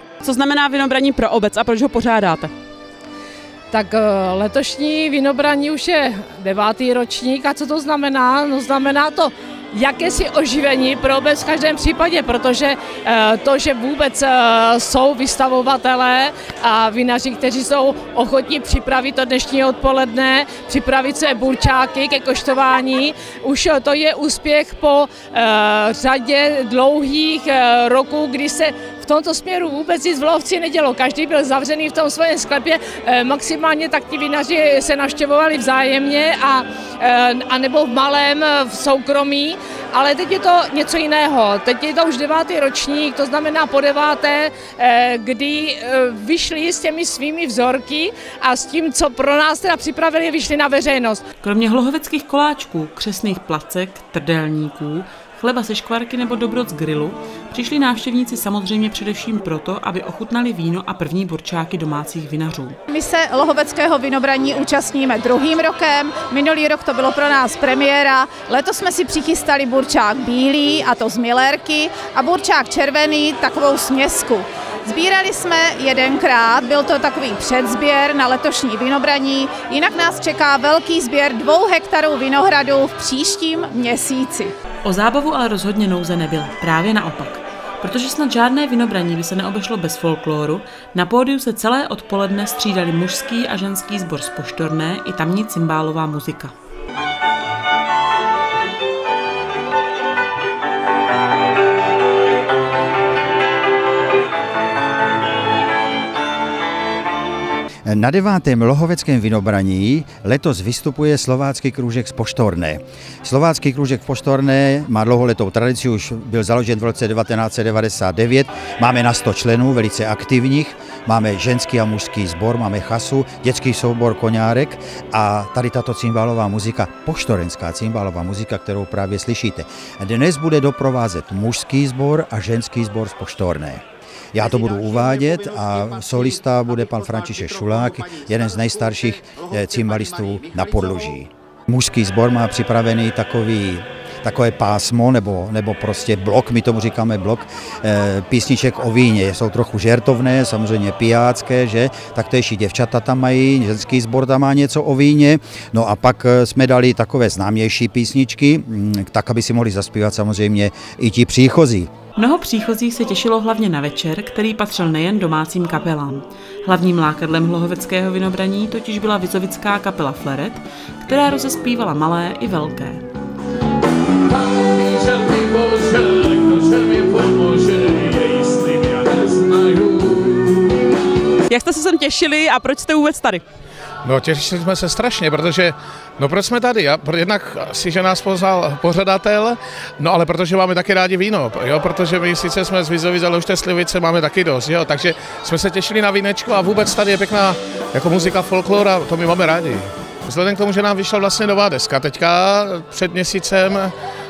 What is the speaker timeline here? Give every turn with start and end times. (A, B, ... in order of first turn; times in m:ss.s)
0:00.2-0:02.5 A
0:03.7-0:51.2 B
0:51.4-1:02.8 C
1:02.9-1:24.5 D
1:24.8-1:36.5 C
1:47.9-2:13.8 E
2:14.3-2:41.9 E
2:42.2-2:53.1 C
2:54.3-3:00.6 F
3:01.5-3:03.4 A
3:04.0-3:23.9 F